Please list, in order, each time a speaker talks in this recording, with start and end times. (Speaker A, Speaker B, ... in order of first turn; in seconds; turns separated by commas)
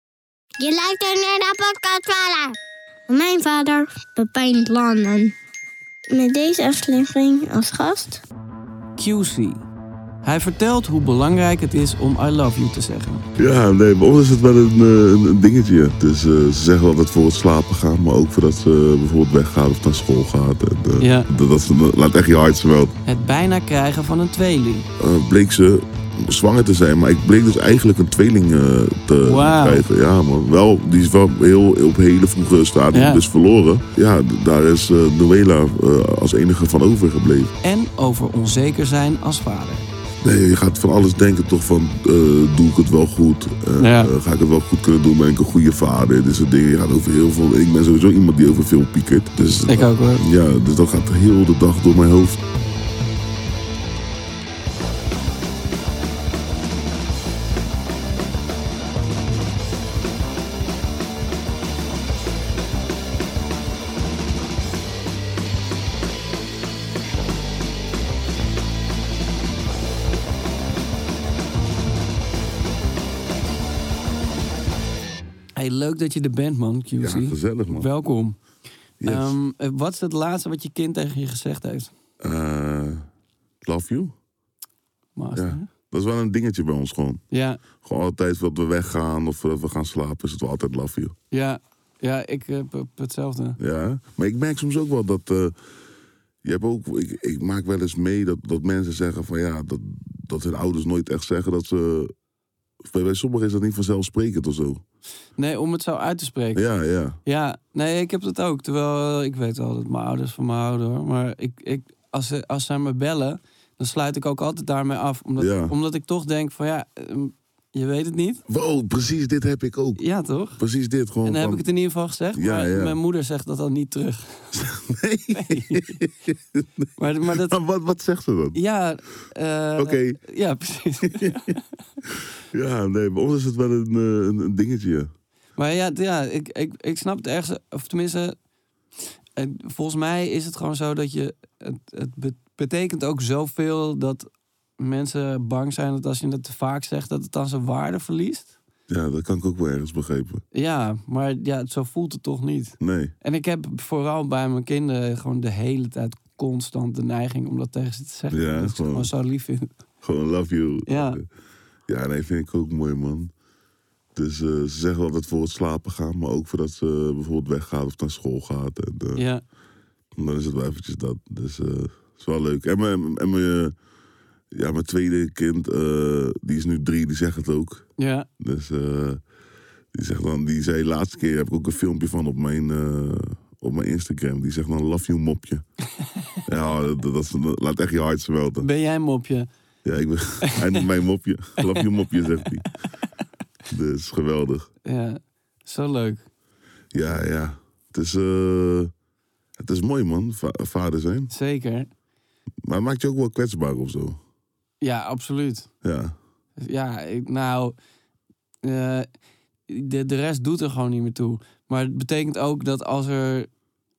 Speaker A: 0.6-2.6, Speaker A: 3.1-5.3, Speaker A: 6.1-8.2, Speaker B: 9.0-9.7, Speaker B: 10.2-13.3, Speaker C: 13.4-22.9, Speaker B: 21.0-21.3, Speaker B: 23.1-24.9, Speaker C: 25.0-37.5, Speaker B: 29.2-29.9, Speaker B: 32.9-33.2, Speaker B: 37.6-39.9, Speaker C: 40.2-52.4, Speaker B: 43.8-44.1, Speaker B: 49.7-50.2, Speaker B: 75.6-78.4, Speaker C: 77.0-77.9, Speaker C: 79.0-79.4, Speaker B: 79.0-81.9, Speaker C: 82.2-83.1, Speaker C: 83.6-84.2, Speaker B: 85.2-85.7, Speaker C: 85.3-87.2, Speaker B: 87.3-87.6, Speaker C: 87.8-91.2, Speaker B: 91.3-93.6, Speaker C: 93.6-95.6, Speaker C: 96.4-102.1, Speaker C: 102.8-104.8, Speaker B: 105.4-106.6, Speaker C: 106.5-107.2, Speaker B: 107.2-118.4, Speaker C: 115.4-115.7, Speaker C: 118.5-120.0, Speaker B: 120.0-120.6, Speaker C: 120.6-121.7, Speaker B: 121.2-124.6, Speaker C: 122.4-123.0, Speaker C: 124.5-128.6, Speaker B: 125.3-126.0, Speaker B: 127.0-127.6, Speaker B: 128.5-131.6, Speaker C: 129.8-130.2, Speaker C: 132.1-135.1, Speaker B: 135.6-138.4, Speaker B: 139.4-144.3, Speaker B: 144.8-148.5, Speaker C: 148.9-150.4, Speaker B: 150.5-159.7, Speaker C: 152.8-153.1, Speaker C: 158.3-159.1, Speaker C: 160.0-161.2, Speaker B: 160.9-161.2, Speaker C: 161.9-163.3, Speaker C: 164.2-169.2, Speaker B: 169.2-169.4, Speaker C: 170.2-173.8, Speaker C: 174.5-177.9, Speaker B: 178.0-178.3, Speaker C: 178.4-179.2, Speaker C: 179.9-185.7, Speaker C: 186.5-188.7, Speaker B: 188.6-189.5, Speaker C: 189.8-192.7, Speaker B: 190.5-190.8, Speaker B: 191.6-191.8, Speaker C: 193.7-194.7, Speaker B: 194.8-196.2, Speaker C: 196.9-198.9, Speaker C: 199.6-201.3, Speaker B: 201.3-201.9, Speaker C: 202.6-204.2, Speaker B: 204.8-205.7, Speaker C: 205.8-206.2, Speaker B: 206.6-207.8, Speaker B: 208.6-209.1, Speaker B: 209.7-213.5